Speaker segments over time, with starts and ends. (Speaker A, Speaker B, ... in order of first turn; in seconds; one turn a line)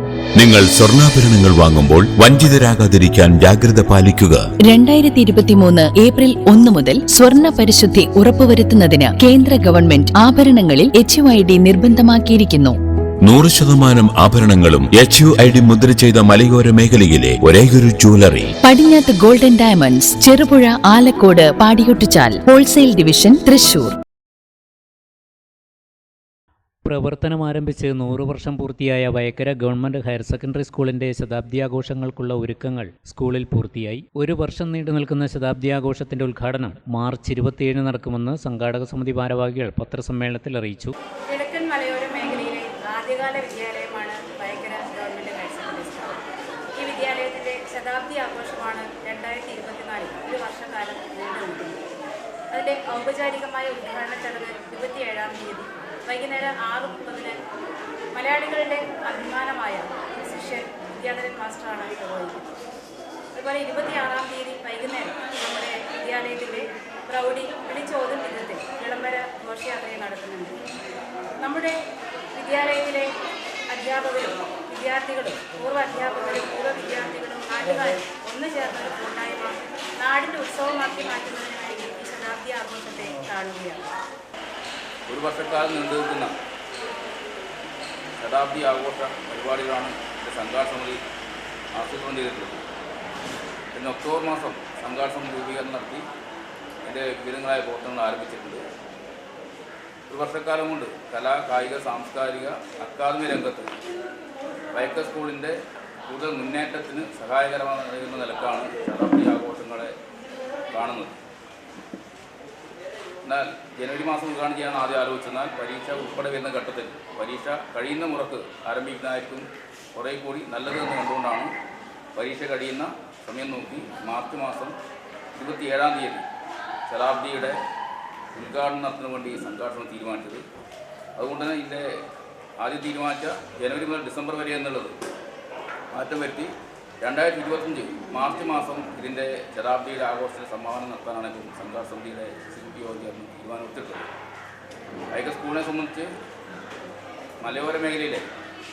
Speaker A: 0.4-4.4
Speaker B: 4.6-12.8
Speaker A: 13.2-18.4
Speaker B: 18.6-23.9
Speaker C: 26.8-40.9
Speaker D: 41.2-46.2
Speaker D: 46.8-51.8
Speaker D: 52.5-57.4
Speaker D: 58.1-62.4
Speaker D: 63.3-70.6
Speaker D: 71.4-71.8
Speaker D: 72.3-73.1
Speaker D: 73.7-83.9
Speaker E: 85.1-86.3
Speaker E: 88.2-91.0
Speaker E: 91.7-92.6
Speaker E: 93.7-96.0
Speaker E: 96.8-98.6
Speaker E: 100.1-103.7
Speaker E: 104.7-105.5
Speaker E: 106.1-109.9
Speaker E: 110.7-111.1
Speaker E: 113.2-121.5
Speaker E: 122.1-124.7
Speaker E: 125.4-126.2
Speaker E: 126.9-127.6
Speaker E: 128.3-130.4
Speaker E: 131.2-131.8
Speaker E: 132.6-134.9
Speaker E: 135.9-144.0
Speaker E: 145.1-146.1
Speaker E: 147.4-148.2